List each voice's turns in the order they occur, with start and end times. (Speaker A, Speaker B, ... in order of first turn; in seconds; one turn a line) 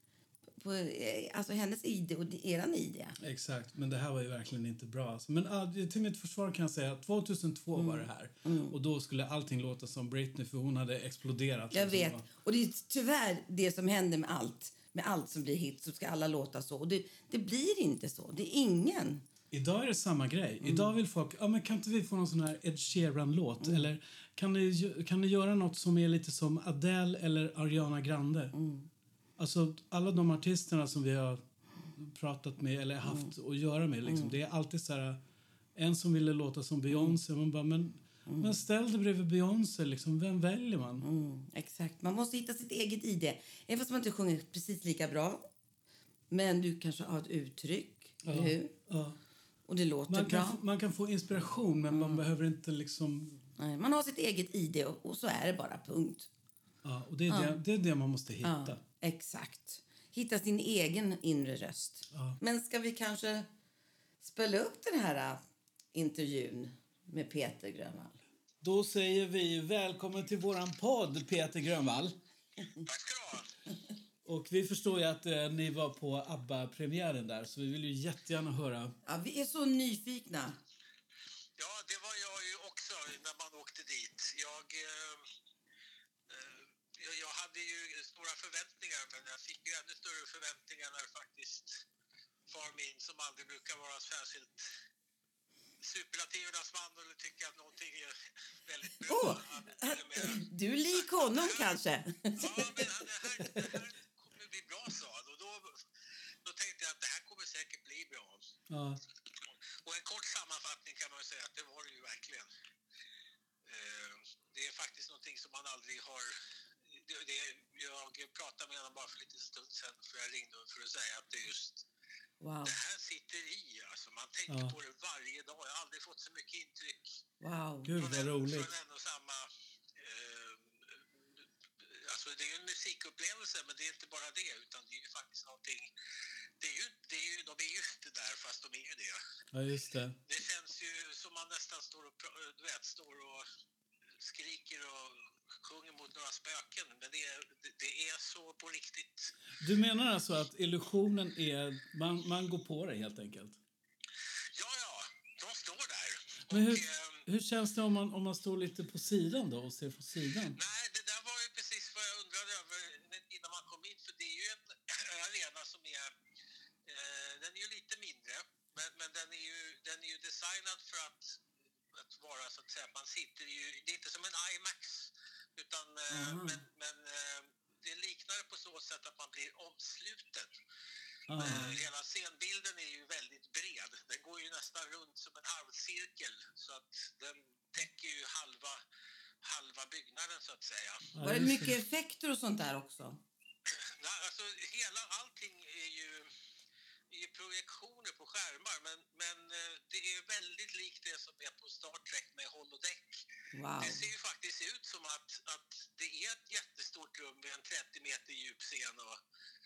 Speaker A: 0.6-3.2
Speaker B: 3.2-12.2
Speaker A: 7.7-8.7
Speaker A: 11.7-19.2
Speaker B: 19.5-28.5
Speaker A: 20.6-20.9
Speaker A: 23.6-23.9
Speaker A: 28.5-28.9
Speaker B: 29.4-31.4
Speaker B: 31.9-35.2
Speaker A: 33.0-33.3
Speaker A: 34.0-34.3
Speaker B: 35.8-41.0
Speaker A: 38.3-38.6
Speaker A: 41.0-45.5
Speaker A: 46.3-48.7
Speaker B: 48.2-49.2
Speaker A: 49.7-50.6
Speaker B: 50.1-53.4
Speaker A: 51.9-52.2
Speaker A: 53.6-56.3
Speaker B: 56.8-58.8
Speaker A: 57.3-57.6
Speaker A: 58.4-63.5
Speaker B: 62.1-62.4
Speaker A: 64.2-65.4
Speaker A: 65.9-68.2
Speaker B: 68.6-72.2
Speaker C: 72.8-73.5
Speaker B: 74.2-78.9
Speaker A: 79.0-80.6
Speaker C: 81.6-85.3
Speaker C: 86.3-91.8
Speaker C: 92.5-94.7
Speaker C: 95.8-101.8
Speaker A: 99.0-102.9
Speaker C: 102.3-105.8
Speaker A: 103.4-103.8
Speaker C: 106.4-108.5
Speaker B: 108.7-109.0
Speaker C: 109.8-112.5
Speaker C: 113.6-116.3
Speaker C: 116.9-121.8
Speaker A: 122.4-122.7
Speaker C: 122.6-127.2
Speaker B: 124.5-124.8
Speaker A: 127.4-127.9
Speaker B: 127.8-128.7
Speaker C: 128.0-135.9
Speaker C: 136.6-139.2
Speaker B: 139.5-140.2
Speaker C: 140.3-143.4
Speaker C: 144.2-149.3
Speaker B: 149.6-153.6
Speaker C: 154.5-157.2
Speaker B: 156.5-160.6
Speaker C: 160.6-166.1
Speaker C: 166.8-171.4
Speaker C: 171.9-180.5
Speaker A: 176.1-176.6
Speaker B: 181.3-181.7
Speaker C: 181.3-188.8
Speaker C: 189.4-191.1
Speaker B: 191.1-191.8
Speaker A: 191.2-193.2
Speaker C: 193.7-196.3
Speaker C: 197.1-203.2
Speaker A: 203.5-204.0
Speaker C: 203.8-209.2